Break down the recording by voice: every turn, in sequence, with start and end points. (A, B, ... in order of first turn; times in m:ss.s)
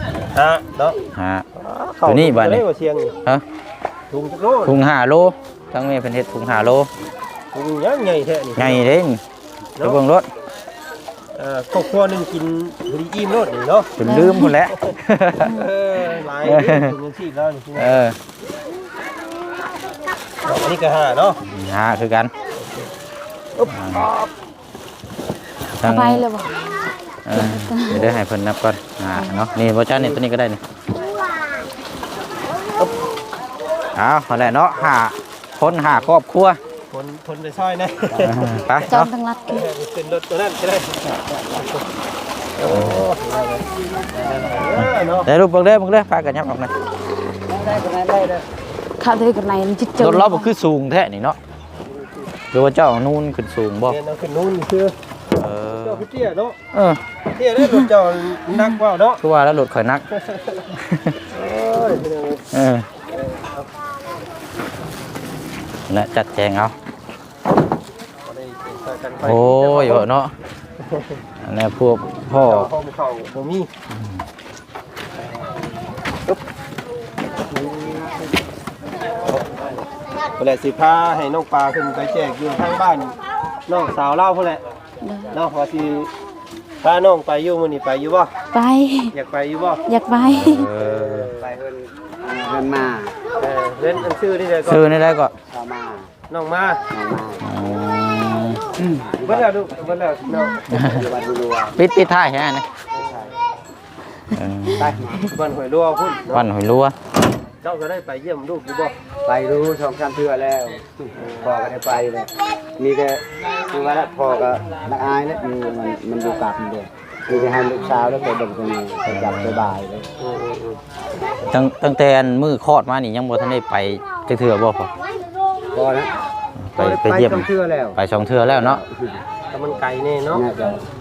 0:00.3-0:01.0 A
0:01.1-0:01.4 B
0:01.5-0:03.2 A
0:02.0-0:02.6 B
0:04.1-0:04.8 A
0:04.6-0:06.9 B
0:07.5-0:08.9 A
0:08.6-0:09.2 B
0:09.8-0:10.3 B
0:11.3-0:14.0 A
0:14.0-0:15.5 B
0:14.0-0:14.5 C
0:14.7-0:18.1 A
0:16.4-0:16.9 B
0:17.8-0:18.2 B
0:20.4-0:21.4 A
0:21.4-0:22.3 B
0:22.6-0:22.9 A
0:23.6-0:24.3 A
0:23.7-0:24.1 B
0:25.8-0:26.2 B
0:25.8-0:26.5 C
0:27.2-0:30.6 B
0:27.3-0:28.1 C
0:33.9-0:36.6 B
0:36.9-0:38.9 A
0:38.1-0:38.5 D
0:38.2-0:39.1 B
0:38.9-0:39.6 C
0:39.5-0:41.8 A
0:41.1-0:41.6 D
0:42.6-0:45.3 A
0:42.7-0:43.0 B
0:44.8-0:46.7 B
0:47.5-0:48.4 D
0:49.0-0:50.5 C
0:50.0-0:51.4 B
0:51.8-0:52.3 A
0:52.5-0:54.0 B
0:53.8-0:54.9 A
0:55.4-0:56.1 B
0:55.7-0:56.6 A
0:56.7-0:57.0 B
0:57.3-0:59.2 A
0:59.2-1:00.0 B
1:00.2-1:00.7 A
1:00.7-1:01.2 B
1:01.3-1:02.4 A
1:02.5-1:02.9 B
1:03.1-1:03.7 A
1:05.9-1:06.8 B
1:08.2-1:10.1 A
1:09.2-1:10.3 B
1:10.8-1:11.2 A
1:11.4-1:12.7 B
1:12.3-1:13.7 A
1:13.9-1:14.2 B
1:17.6-1:18.1 D
1:19.2-1:19.6 A
1:20.4-1:23.2 A
1:23.7-1:24.6 A
1:25.0-1:25.4 C
1:25.3-1:26.1 A
1:26.8-1:28.3 A
1:28.5-1:29.1 C
1:29.1-1:29.8 A
1:29.9-1:30.7 C
1:30.2-1:31.3 B
1:30.8-1:31.5 A
1:31.4-1:33.2 D
1:33.4-1:35.0 A
1:34.6-1:35.3 B
1:35.5-1:36.1 D
1:36.3-1:36.8 A
1:36.9-1:37.4 D
1:37.4-1:38.6 B
1:38.8-1:39.5 D
1:39.2-1:41.0 A
1:40.3-1:40.6 C
1:40.7-1:41.0 B
1:40.7-1:41.8 D
1:41.8-1:42.7 B
1:42.9-1:43.4 A
1:43.0-1:43.3 D
1:44.3-1:45.0 B
1:44.8-1:45.3 D
1:45.3-1:46.5 A
1:46.3-1:47.0 B
1:47.6-1:48.9 A
1:49.2-2:00.1 D
1:51.2-1:51.5 A
1:57.3-1:57.6 A
1:59.0-1:59.7 B
2:00.2-2:00.8 A
2:01.4-2:04.9 B
2:05.7-2:06.1 D
2:06.6-2:08.8 B
2:06.8-2:09.2 D
2:09.5-2:10.6 A
2:10.3-2:10.8 D